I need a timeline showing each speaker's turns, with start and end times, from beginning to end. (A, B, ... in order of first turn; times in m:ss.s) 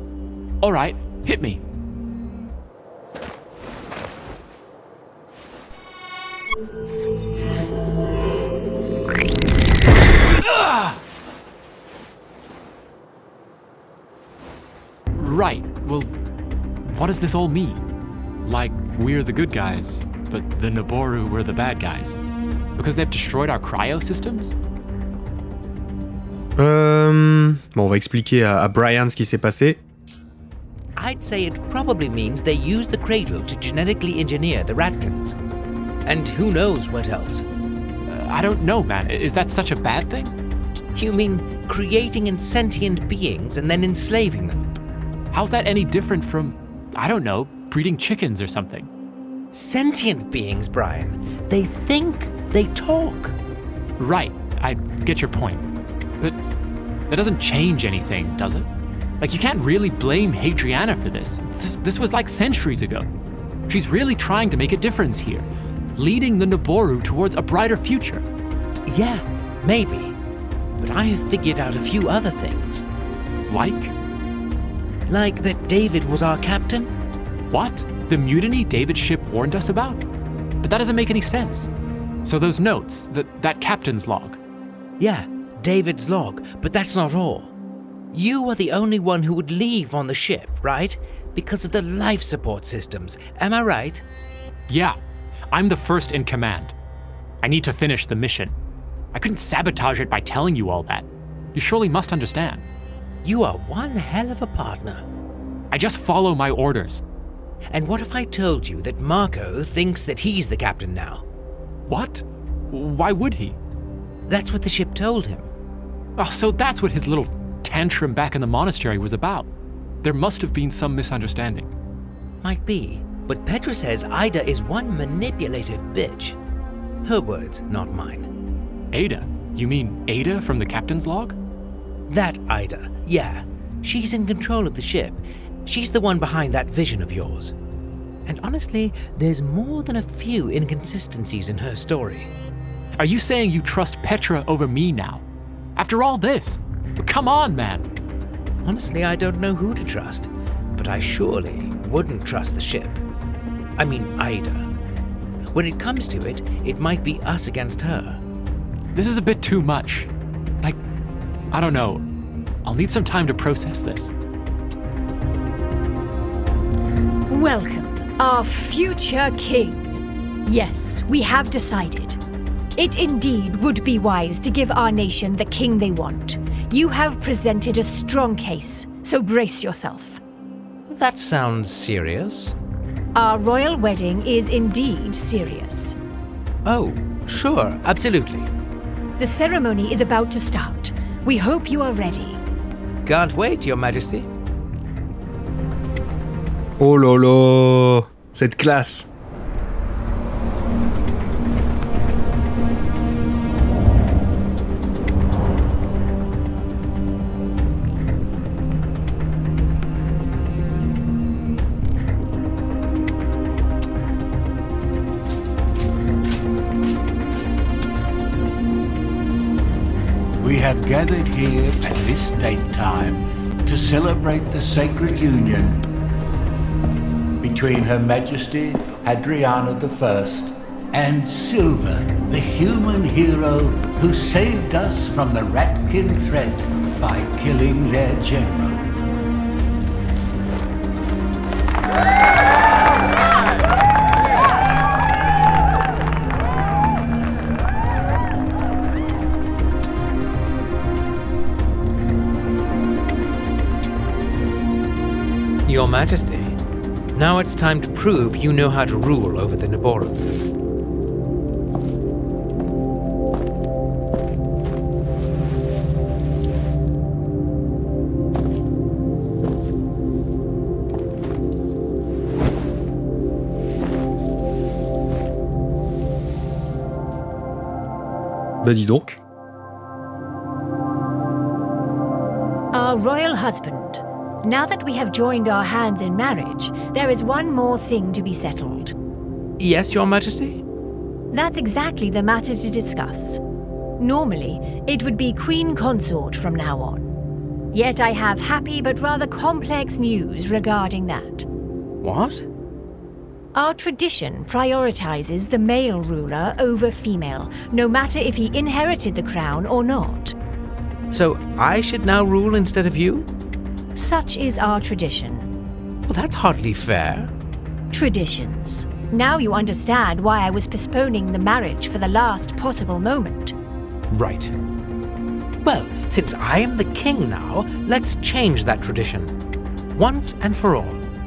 0:00.6-0:01.6 A
0:15.1-0:16.1 A
0:16.8-0:17.8 A
0:18.4-0:22.2 A
0:22.8-0:24.5 A
0:26.6-0:29.8 B
0:31.0-0:35.4 C
0:36.0-0:37.4 C
0:38.0-0:40.3 A
0:40.9-0:44.7 C
0:45.3-0:48.9 A
0:49.5-0:53.4 C
0:54.0-0:55.6 A
0:57.1-0:58.7 A
0:59.2-1:03.1 A
1:03.7-1:08.2 A
1:08.9-1:10.2 C
1:10.8-1:12.8 C
1:13.5-1:13.9 A
1:15.1-1:16.9 C
1:17.5-1:20.0 A
1:20.6-1:21.7 A
1:22.2-1:24.4 A
1:25.0-1:27.5 C
1:28.1-1:34.0 C
1:34.7-1:35.0 A
1:35.5-1:36.7 A
1:37.4-1:38.6 A
1:39.1-1:42.6 A
1:43.2-1:45.0 C
1:45.7-1:47.0 A
1:47.7-1:51.2 C
1:51.9-1:53.6 A
1:54.3-1:55.5 C
1:56.2-1:59.5 A
2:00.0-2:01.7 A
2:02.4-2:06.4 C
2:07.0-2:08.3 C
2:08.9-2:11.4 A
2:12.1-2:17.5 C
2:18.2-2:22.3 C
2:23.0-2:25.2 A
2:25.8-2:27.9 A
2:28.6-2:33.0 C
2:33.8-2:34.7 C
2:35.5-2:38.2 C
2:38.9-2:40.1 A
2:41.5-2:42.0 A
2:42.6-2:44.1 A
2:47.3-2:49.9 D
2:50.4-2:52.2 D
2:52.7-3:00.2 D
3:00.9-3:02.6 C
3:03.1-3:05.9 D
3:06.6-3:08.5 C
3:09.2-3:12.4 D
3:13.0-3:14.3 C
3:16.8-3:19.1 B
3:40.4-3:45.8 E
3:47.4-3:58.8 E
4:15.6-4:16.6 C
4:17.1-4:20.3 C
4:38.6-4:39.2 B
4:42.7-4:48.9 D
4:49.6-4:50.6 C
4:51.3-4:53.4 D
4:54.0-4:57.1 D
4:57.7-5:01.4 D
5:02.0-5:02.5 C
5:03.5-5:10.3 D
5:11.1-5:13.3 C
5:13.9-5:15.5 D
5:16.1-5:17.3 C
5:17.9-5:23.5 D
5:24.1-5:24.5 C
5:25.6-5:29.3 C
5:30.0-5:31.0 C